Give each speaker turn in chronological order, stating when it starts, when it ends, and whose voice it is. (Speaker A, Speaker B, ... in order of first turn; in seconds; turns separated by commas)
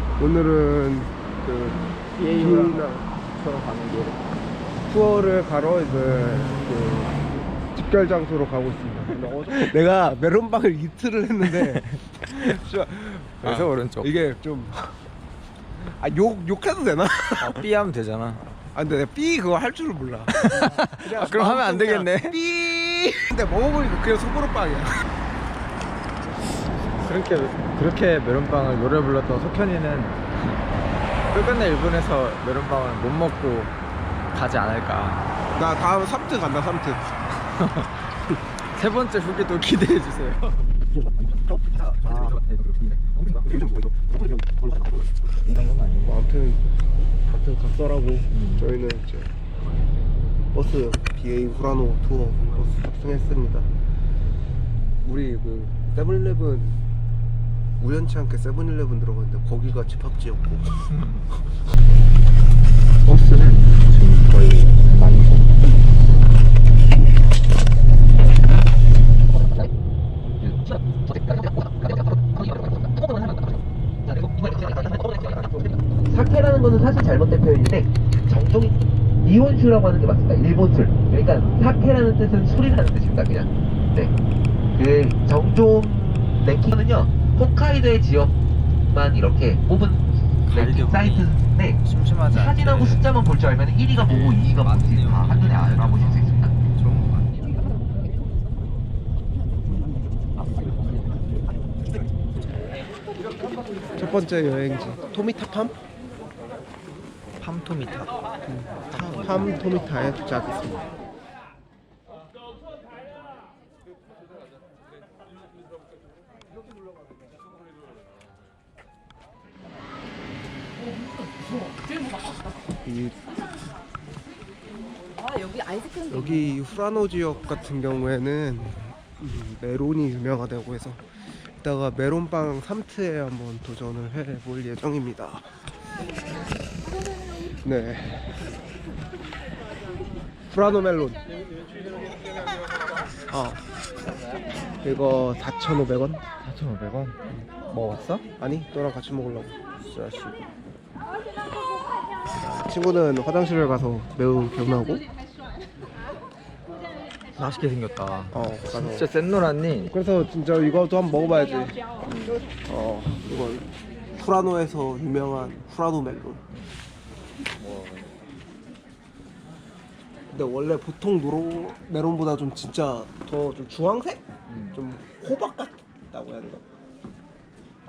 Speaker A: 0.2-3.1, Speaker B: 2.1-4.2, Speaker A: 4.9-7.2, Speaker A: 7.7-14.9, Speaker B: 11.5-12.6, Speaker B: 13.4-14.2, Speaker A: 15.8-17.7, Speaker B: 17.4-18.4, Speaker A: 18.7-25.1, Speaker B: 20.3-22.4, Speaker B: 27.0-30.6, Speaker B: 31.3-33.7, Speaker B: 34.3-35.3, Speaker A: 35.5-37.1, Speaker B: 37.5-40.6, Speaker C: 40.9-45.1, Speaker B: 45.4-46.2, Speaker A: 46.0-46.7, Speaker A: 47.3-49.3, Speaker B: 48.3-48.7, Speaker A: 50.5-53.7, Speaker A: 55.0-56.8, Speaker A: 57.8-60.7, Speaker B: 60.9-61.2, Speaker B: 63.0-65.6, Speaker C: 69.3-69.7, Speaker C: 70.4-84.1, Speaker C: 84.8-88.3, Speaker C: 88.9-96.5, Speaker B: 90.5-93.1, Speaker B: 94.0-97.7, Speaker A: 104.0-105.8, Speaker B: 107.4-108.2, Speaker A: 108.5-110.8, Speaker B: 108.9-109.7, Speaker A: 122.8-123.2, Speaker A: 126.0-131.0, Speaker A: 131.6-135.5, Speaker A: 137.6-138.4, Speaker A: 140.5-141.2, Speaker A: 143.3-143.6, Speaker A: 144.8-146.2, Speaker B: 146.4-148.3, Speaker A: 148.4-149.6, Speaker B: 149.8-150.4, Speaker A: 152.3-155.0, Speaker B: 157.4-159.9, Speaker A: 158.3-159.1, Speaker A: 159.9-163.7, Speaker B: 162.1-162.4, Speaker A: 164.2-166.4, Speaker B: 167.6-168.2, Speaker A: 170.3-174.2, Speaker B: 174.5-174.9, Speaker A: 174.7-176.7